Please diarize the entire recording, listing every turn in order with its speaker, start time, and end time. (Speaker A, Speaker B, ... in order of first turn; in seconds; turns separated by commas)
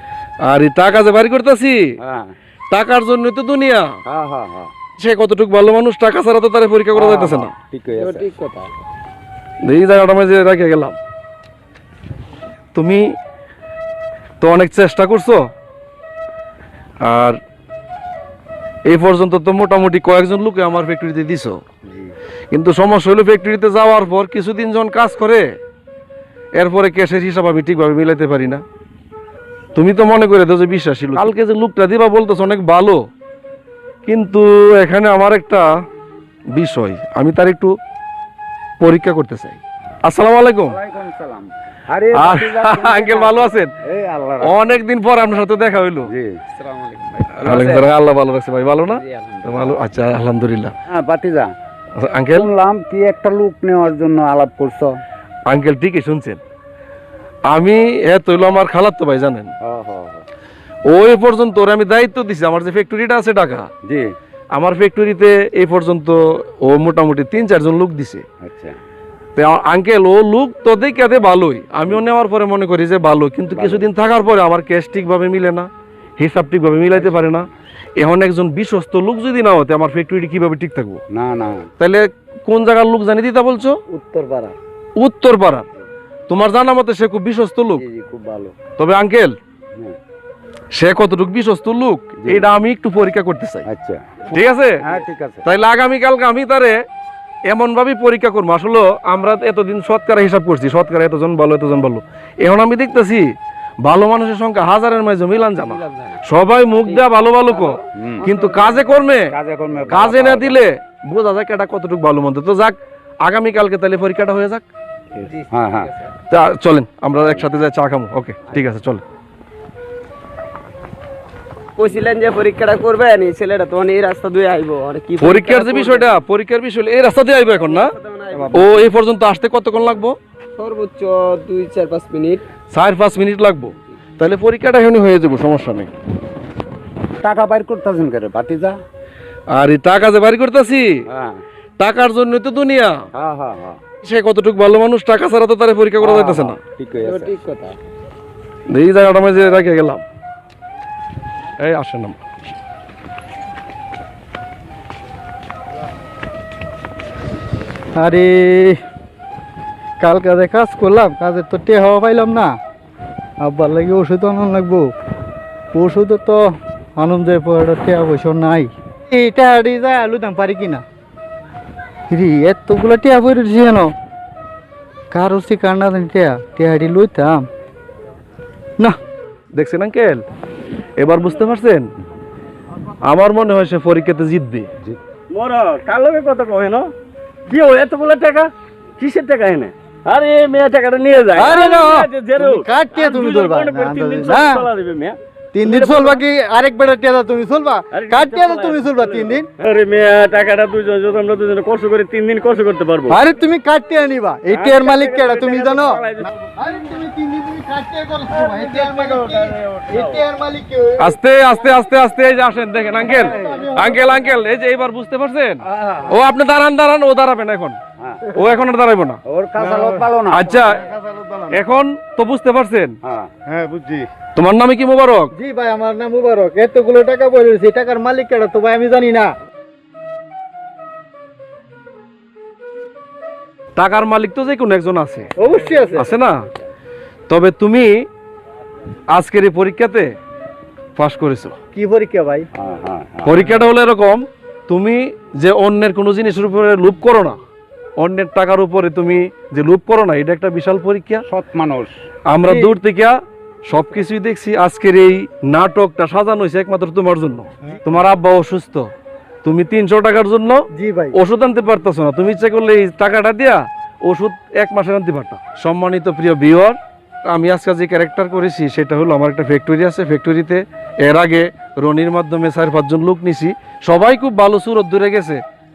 Speaker A: 0.4-1.8, Speaker B: 2.0-2.3, Speaker A: 2.7-3.9, Speaker B: 4.1-4.7, Speaker A: 5.0-7.5, Speaker B: 6.9-8.3, Speaker C: 7.9-8.7, Speaker A: 9.6-10.9, Speaker A: 12.7-13.1, Speaker A: 14.4-15.4, Speaker A: 17.0-17.4, Speaker A: 18.9-21.6, Speaker A: 22.5-25.4, Speaker A: 26.6-28.6, Speaker A: 29.7-33.0, Speaker A: 34.0-35.7, Speaker A: 36.5-37.7, Speaker A: 38.8-40.8, Speaker B: 40.6-44.8, Speaker A: 42.1-43.7, Speaker A: 44.4-46.1, Speaker B: 46.1-47.3, Speaker C: 47.0-47.8, Speaker A: 47.4-50.7, Speaker C: 48.9-49.6, Speaker B: 50.9-51.5, Speaker A: 52.0-52.5, Speaker B: 52.3-55.0, Speaker A: 55.5-56.4, Speaker A: 57.5-59.5, Speaker B: 59.6-60.2, Speaker A: 60.9-63.7, Speaker B: 63.9-64.1, Speaker A: 64.5-68.2, Speaker B: 68.4-68.7, Speaker A: 69.3-75.7, Speaker B: 73.5-73.9, Speaker A: 76.2-77.5, Speaker B: 77.0-77.4, Speaker A: 78.0-81.0, Speaker B: 81.1-81.7, Speaker A: 81.8-83.8, Speaker D: 83.9-84.5, Speaker A: 85.0-85.7, Speaker A: 86.3-87.8, Speaker B: 87.8-88.5, Speaker A: 88.8-89.3, Speaker A: 90.7-93.6, Speaker B: 92.2-92.5, Speaker B: 93.7-94.2, Speaker A: 94.3-94.8, Speaker B: 94.8-95.5, Speaker A: 95.4-96.8, Speaker A: 97.5-103.3, Speaker A: 103.8-109.3, Speaker C: 105.6-106.2, Speaker C: 106.8-108.9, Speaker B: 108.0-108.3, Speaker B: 109.3-110.6, Speaker A: 109.9-114.6, Speaker C: 115.2-116.1, Speaker B: 115.5-116.0, Speaker A: 116.3-119.0, Speaker C: 121.8-126.2, Speaker A: 125.2-127.9, Speaker C: 127.6-128.7, Speaker B: 128.3-128.7, Speaker A: 128.5-130.2, Speaker C: 130.6-132.4, Speaker A: 132.7-135.9, Speaker B: 137.2-138.8, Speaker A: 139.5-140.9, Speaker B: 141.1-141.4, Speaker A: 141.8-143.0, Speaker B: 143.1-143.8, Speaker A: 144.0-146.6, Speaker B: 146.0-147.4, Speaker C: 147.0-147.8, Speaker A: 148.7-150.0, Speaker A: 151.6-152.2, Speaker D: 157.9-158.8, Speaker D: 160.0-162.6, Speaker D: 163.4-164.9, Speaker D: 165.7-166.4, Speaker D: 167.0-170.8, Speaker D: 172.1-173.9, Speaker D: 175.1-177.4, Speaker A: 179.5-180.2, Speaker A: 181.0-181.9, Speaker A: 183.0-184.7, Speaker E: 185.3-186.9, Speaker E: 187.5-196.2, Speaker D: 191.3-191.7, Speaker A: 191.7-192.1, Speaker D: 192.3-194.7, Speaker D: 195.5-199.4, Speaker E: 197.9-203.2, Speaker D: 203.1-211.1, Speaker E: 204.5-206.3, Speaker E: 208.3-210.2, Speaker A: 211.0-217.8, Speaker D: 213.0-214.1, Speaker B: 218.0-218.3, Speaker A: 218.3-219.2, Speaker B: 219.3-220.7, Speaker D: 219.6-220.0, Speaker A: 220.3-220.8, Speaker D: 220.6-221.6, Speaker A: 221.5-222.9, Speaker B: 223.1-223.3, Speaker D: 223.5-224.0, Speaker A: 224.3-225.3, Speaker D: 225.3-229.3, Speaker A: 233.8-235.3, Speaker D: 235.4-236.1, Speaker A: 235.9-236.3, Speaker A: 237.3-237.9, Speaker A: 239.1-240.1, Speaker A: 240.9-241.6, Speaker D: 241.7-242.5, Speaker B: 242.5-243.5, Speaker A: 243.2-247.4, Speaker A: 248.0-251.2, Speaker B: 251.3-251.9, Speaker A: 252.3-258.9, Speaker D: 252.4-252.7, Speaker A: 259.4-275.4, Speaker D: 260.7-261.2